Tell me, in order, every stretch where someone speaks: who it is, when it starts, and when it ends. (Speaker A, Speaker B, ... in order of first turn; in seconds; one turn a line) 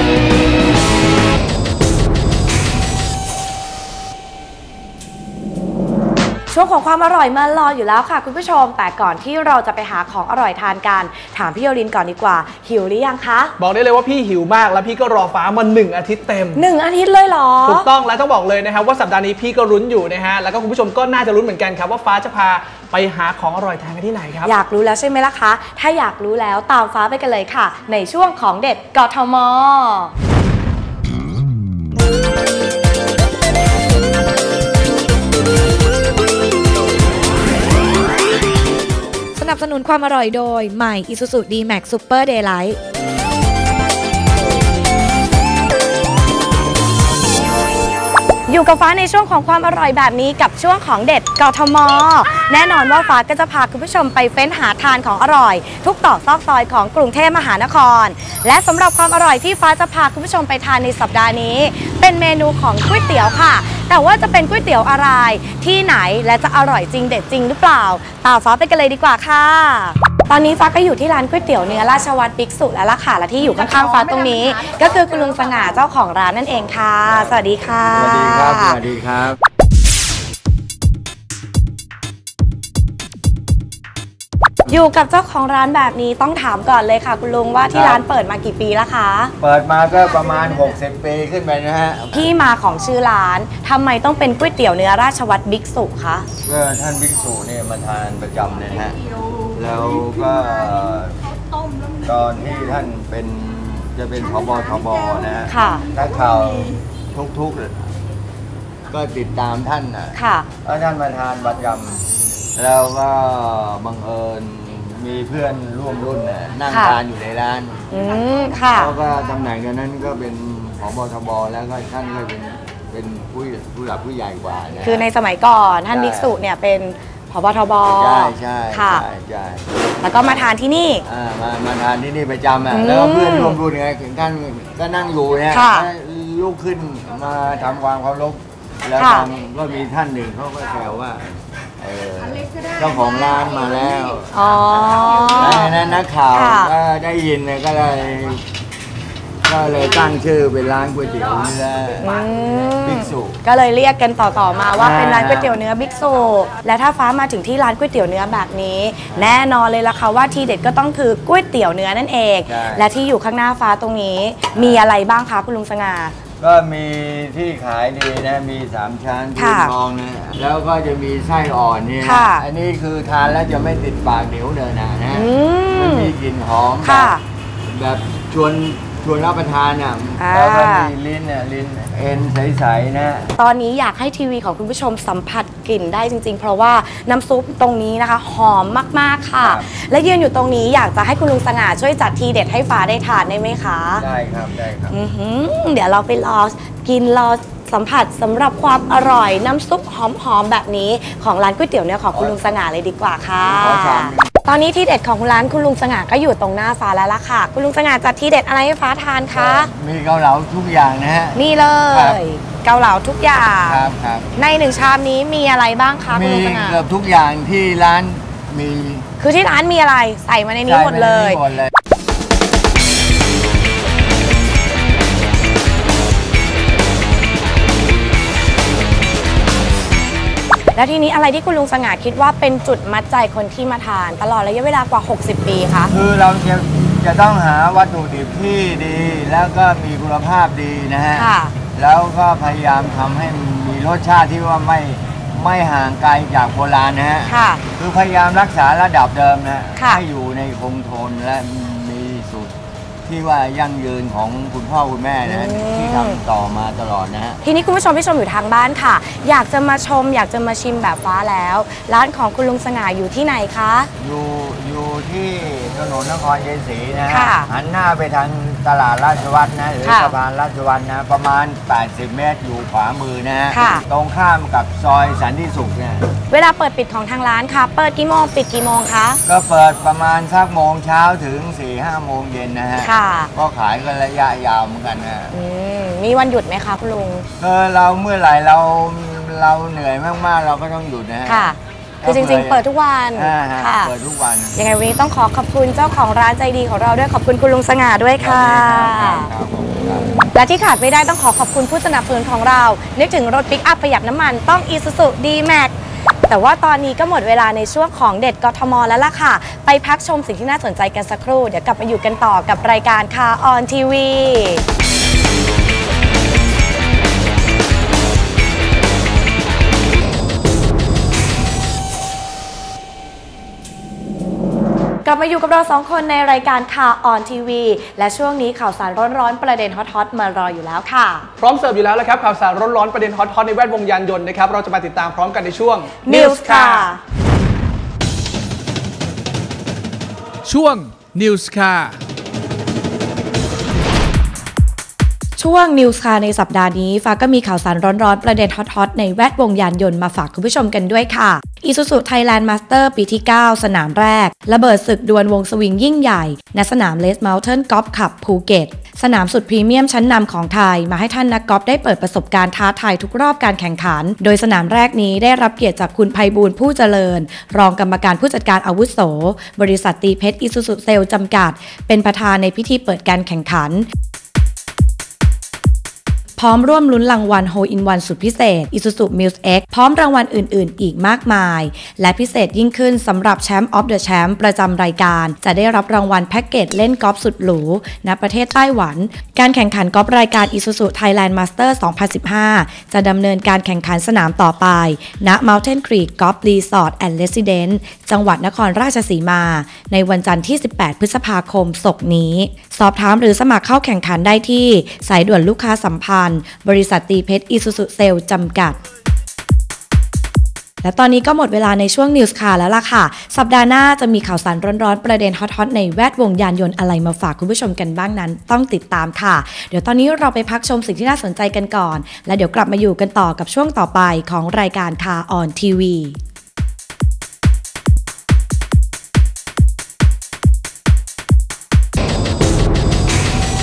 Speaker A: 6.5-13.5
Speaker B: 13.6-16.6
Speaker A: 16.5-17.9
Speaker B: 17.6-24.5
Speaker A: 24.4-30.1
Speaker A: 39.4-42.8
Speaker A: 48.5-78.8
Speaker C: 77.1-77.3
Speaker C: 78.0-79.4
Speaker A: 84.7-89.3
Speaker C: 87.7-88.0
Speaker C: 89.4-92.3
Speaker A: 92.1-96.3
Speaker C: 96.5-99.0
Speaker C: 99.5-101.2
Speaker C: 102.0-107.8
Speaker A: 105.5-105.8
Speaker C: 108.9-112.0
Speaker A: 110.1-110.5
Speaker C: 112.6-117.9
Speaker A: 116.7-117.0
Speaker A: 117.9-118.9
Speaker C: 118.7-125.1
Speaker A: 124.8-129.0
Speaker C: 125.9-126.3
Speaker C: 128.0-130.5
Speaker A: 130.0-131.0
Speaker C: 131.1-144.3
Speaker A: 132.7-133.6
Speaker A: 135.5-135.9
Speaker A: 139.0-139.3
Speaker A: 144.3-145.8
Speaker C: 145.3-148.4
Speaker A: 146.3-146.7
Speaker C: 149.4-152.2
Speaker A: 152.0-166.1
Speaker C: 152.8-153.4
Speaker C: 154.8-155.6
Speaker C: 159.1-159.4
Speaker C: 162.5-162.9
Speaker C: 164.5-164.9
Speaker C: 166.4-183.3
Speaker A: 169.4-169.7
Speaker A: 172.0-172.4
Speaker A: 175.1-176.1
Speaker A: 176.8-177.2
Speaker A: 180.2-180.9
Speaker A: 183.4-194.1
Speaker C: 189.4-189.7
Speaker C: 194.0-195.0
Speaker A: 194.9-209.7
Speaker C: 203.4-204.3
Speaker C: 209.3-212.2
Speaker A: 211.3-213.9
Speaker C: 213.6-214.3
Speaker A: 214.4-216.8
Speaker C: 216.1-219.1
Speaker A: 219.2-221.4
Speaker C: 220.7-221.7
Speaker A: 230.8-235.9
Speaker C: 235.9-252.5
Speaker A: 241.2-241.5
Speaker A: 247.3-247.6
Speaker A: 249.8-250.0
Speaker C: 253.1-257.4
Speaker A: 255.3-256.2
Speaker A: 257.4-263.9
Speaker C: 264.0-276.0
Speaker A: 267.1-267.5
Speaker A: 269.8-270.1
Speaker A: 273.5-273.8
Speaker A: 276.3-279.2
Speaker C: 279.3-285.3
Speaker A: 282.8-283.3
Speaker A: 285.3-287.3
Speaker C: 287.4-292.6
Speaker A: 291.3-293.9
Speaker C: 293.1-294.6
Speaker A: 294.6-299.3
Speaker C: 298.2-300.2
Speaker A: 300.3-305.8
Speaker A: 306.3-314.6
Speaker A: 325.1-331.3
Speaker B: 331.4-336.9
Speaker A: 336.1-337.0
Speaker B: 340.5-341.9
Speaker A: 345.4-373.9
Speaker A: 376.4-408.8
Speaker A: 410.8-426.2